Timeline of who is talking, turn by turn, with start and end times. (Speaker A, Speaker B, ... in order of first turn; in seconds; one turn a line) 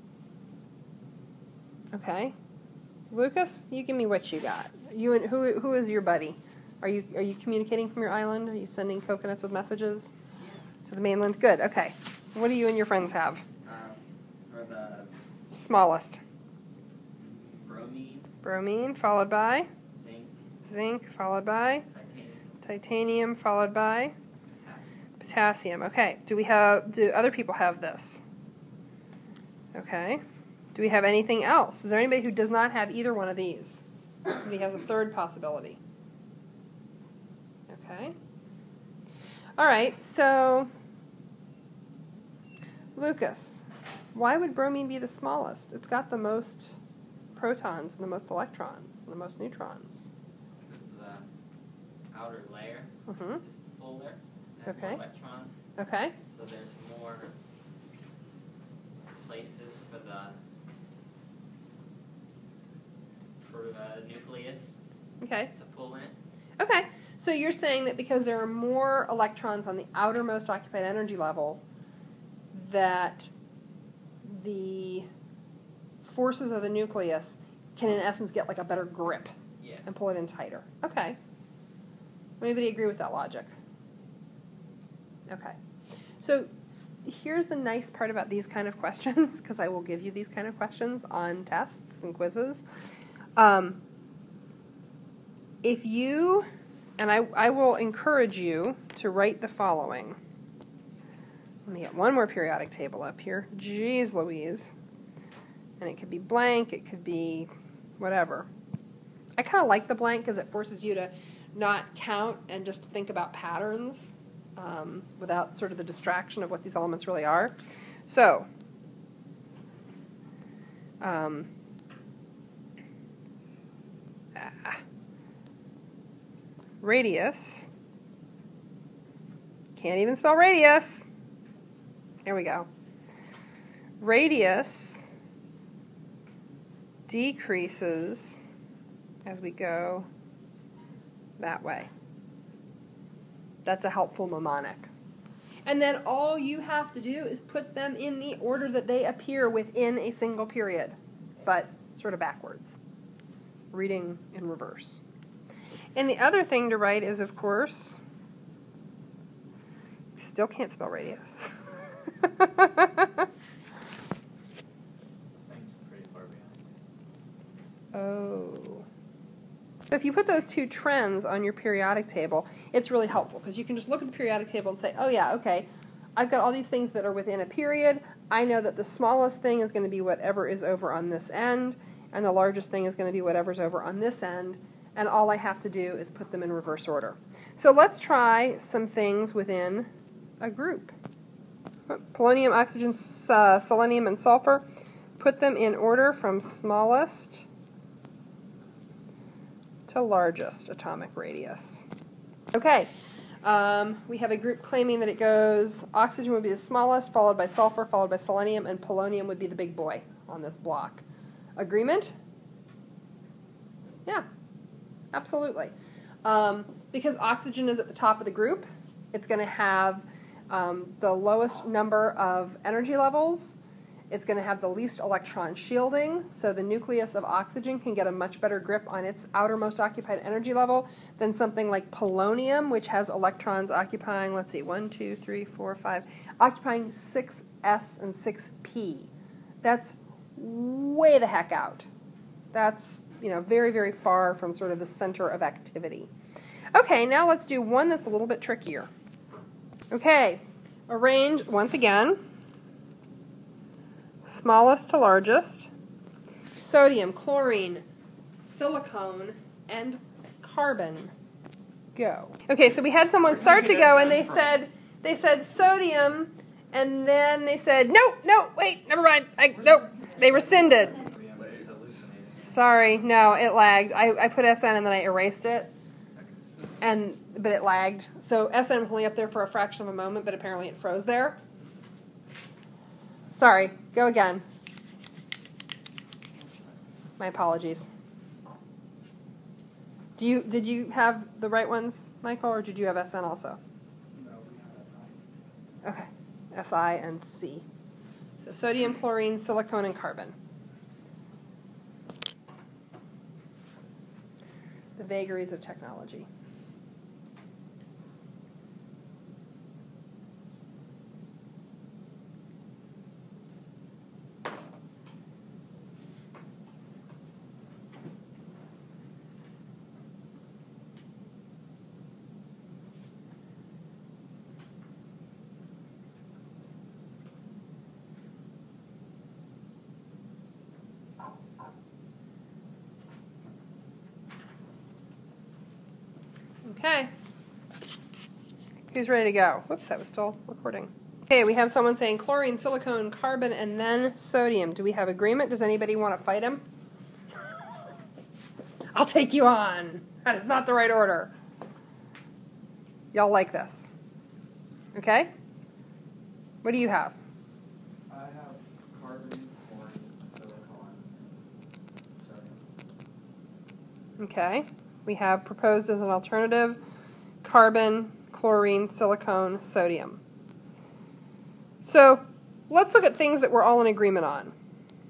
Speaker A: 1.9-2.3
Speaker A: 3.1-10.1
Speaker A: 10.8-13.4
Speaker B: 13.6-15.1
Speaker A: 15.6-16.2
Speaker B: 17.2-18.3
Speaker A: 18.4-19.7
Speaker B: 19.9-20.3
Speaker A: 20.6-21.8
Speaker B: 21.9-22.5
Speaker A: 22.6-24.1
Speaker B: 24.5-24.9
Speaker A: 25.2-28.2
Speaker A: 29.7-30.2
Speaker A: 30.7-33.8
Speaker A: 34.4-35.8
Speaker A: 37.7-38.1
Speaker A: 39.6-40.7
Speaker A: 43.0-46.8
Speaker A: 47.4-50.0
Speaker B: 50.6-51.2
Speaker B: 52.1-55.6
Speaker A: 53.1-53.4
Speaker A: 54.6-55.0
Speaker A: 55.8-56.1
Speaker B: 56.3-57.3
Speaker B: 59.1-60.4
Speaker B: 63.4-64.8
Speaker A: 65.2-65.5
Speaker B: 65.5-66.2
Speaker A: 66.6-71.6
Speaker A: 72.5-73.3
Speaker A: 74.2-75.0
Speaker A: 76.0-81.2
Speaker B: 79.6-79.8
Speaker A: 82.4-83.5
Speaker A: 85.3-85.5
Speaker A: 86.2-86.5
Speaker A: 87.0-92.6
Speaker A: 93.3-93.8
Speaker A: 95.6-96.5
Speaker A: 97.0-100.2
Speaker A: 101.7-104.7
Speaker A: 105.8-108.5
Speaker A: 109.4-117.5
Speaker A: 118.1-118.5
Speaker A: 121.0-121.5
Speaker A: 124.3-124.8
Speaker A: 126.8-127.7
Speaker A: 129.8-131.1
Speaker A: 132.2-132.7
Speaker A: 134.0-135.0
Speaker A: 137.1-138.4
Speaker A: 139.2-140.1
Speaker A: 141.4-141.9
Speaker A: 143.6-144.9
Speaker A: 145.7-152.8
Speaker A: 153.7-155.0
Speaker A: 155.9-158.0
Speaker A: 160.2-161.6
Speaker A: 162.2-163.3
Speaker C: 165.5-166.5
Speaker A: 167.9-168.8
Speaker A: 169.9-189.9
Speaker A: 190.4-190.9
Speaker A: 191.9-194.6
Speaker A: 195.2-197.4
Speaker A: 199.9-201.8
Speaker A: 202.5-202.9
Speaker A: 203.4-211.0
Speaker A: 211.6-212.1
Speaker A: 215.1-215.7
Speaker A: 216.2-223.6
Speaker A: 224.1-239.1
Speaker A: 239.6-241.9
Speaker A: 242.5-246.1
Speaker A: 246.7-248.9
Speaker A: 249.9-252.2
Speaker A: 254.2-255.7
Speaker A: 256.6-257.8
Speaker A: 258.4-261.1
Speaker A: 261.9-271.0
Speaker C: 271.0-272.5
Speaker A: 272.4-275.7
Speaker A: 276.8-281.4
Speaker A: 283.3-284.4
Speaker A: 287.2-287.9
Speaker A: 290.2-293.6
Speaker C: 294.1-295.3
Speaker A: 295.8-297.6
Speaker A: 298.4-300.3
Speaker A: 305.0-306.3
Speaker A: 336.6-337.1
Speaker A: 338.9-346.6
Speaker A: 348.9-351.3
Speaker A: 353.1-353.9
Speaker A: 354.9-355.3
Speaker A: 356.6-357.1
Speaker C: 358.1-361.3
Speaker C: 362.2-362.6
Speaker A: 364.2-366.8
Speaker A: 367.4-370.2
Speaker A: 371.8-374.5